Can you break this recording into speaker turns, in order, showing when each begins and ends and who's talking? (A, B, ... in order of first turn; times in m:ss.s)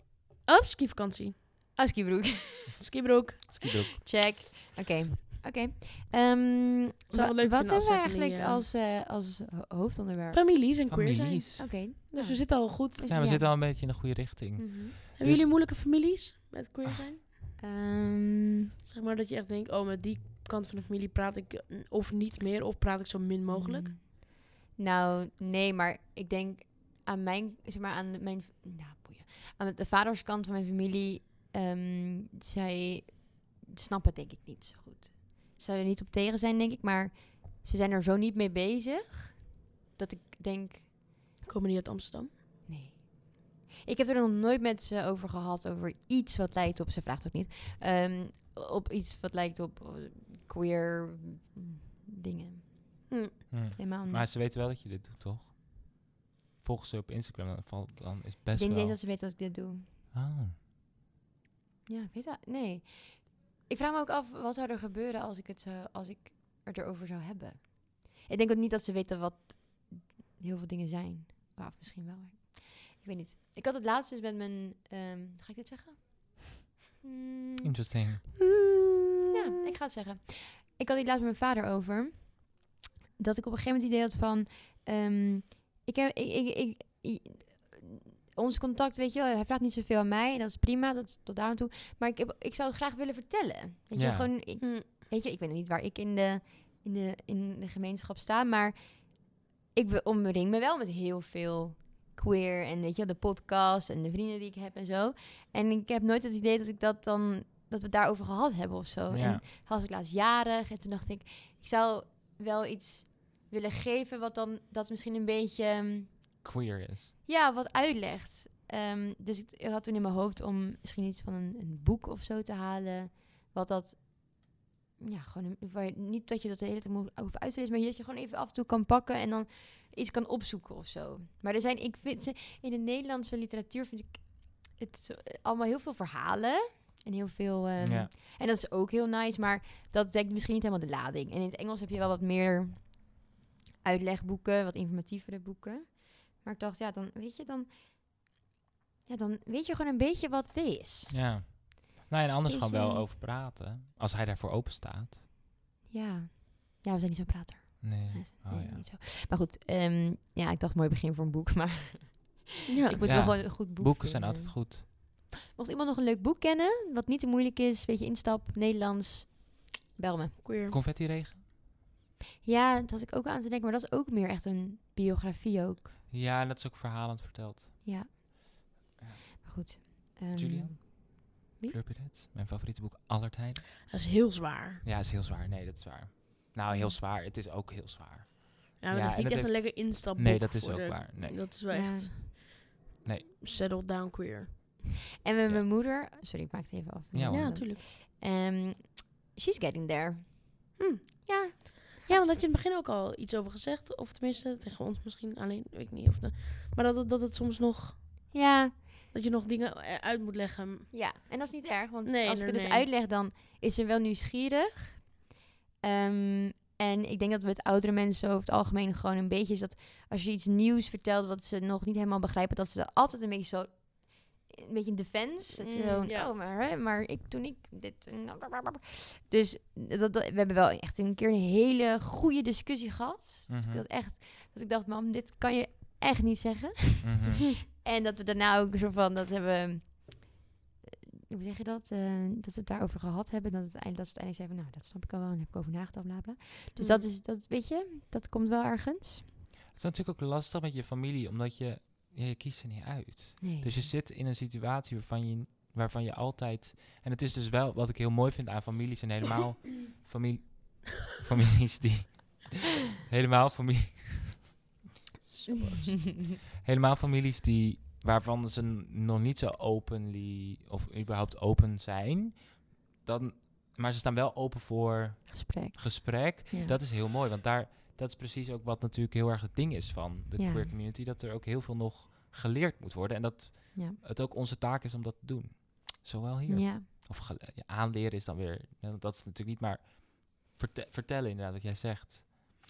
0:00.5-0:01.4 A
0:01.8-0:02.8 B
0:02.8-0:03.7 A
0:03.5-0:04.0 C
0:04.0-0:10.6 B
0:07.1-0:08.6 A
0:10.3-0:13.2 A
0:10.9-0:11.7 C
0:11.6-0:14.0 B
0:13.0-0:15.5 C
0:14.6-0:15.0 B
0:15.2-0:17.2 A
0:17.6-0:18.7 B
0:18.9-0:23.9 A
0:23.5-0:41.1 B
0:41.4-0:42.3 A
0:42.7-0:53.0 B
0:53.1-0:53.4 A
0:53.5-0:56.1 C
0:53.8-0:54.3 B
0:56.6-0:59.0 C
0:58.6-0:59.9 B
1:00.1-1:00.6 C
1:01.9-1:17.7 B
1:17.6-1:18.2 C
1:18.6-1:19.4 A
1:19.3-1:56.2 B
1:34.0-1:34.3 C
1:34.6-1:34.9 A
1:49.1-1:49.4 C
1:56.4-1:57.1 C
1:57.3-2:23.2 B
2:17.8-2:18.1 C
2:23.8-2:28.1 B
2:29.1-2:31.1 B
2:31.1-2:35.2 C
2:32.5-2:33.0 B
2:35.9-2:50.4 B
2:37.8-2:38.8 C
2:42.7-2:43.1 A
2:43.0-2:44.8 C
2:50.4-2:50.8 A
2:50.7-2:51.4 C
2:52.4-2:56.0 B
2:56.1-2:58.2 C
2:57.8-2:58.1 B
2:59.4-3:01.8 B
3:00.3-3:03.7 C
3:03.9-3:04.8 A
3:04.8-3:11.5 C
3:06.7-3:07.0 B
3:08.8-3:12.6 A
3:11.7-3:12.1 B
3:13.4-3:14.9 A
3:15.2-3:22.4 B
3:17.1-3:17.6 C
3:17.3-3:17.8 A
3:20.8-3:28.2 A
3:28.3-3:28.9 B
3:29.1-3:30.9 A
3:30.9-3:35.3 B
3:32.1-3:32.9 A
3:35.8-3:57.2 B
3:45.6-3:46.3 A
3:53.5-3:53.8 C
3:57.0-3:57.4 C
3:57.7-4:09.3 B
4:06.8-4:07.1 A
4:09.7-4:24.6 C
4:13.4-4:13.9 B
4:25.3-4:52.3 C
4:25.5-4:25.9 B
4:35.3-4:36.8 B
4:40.4-4:40.7 B
4:46.5-4:46.9 B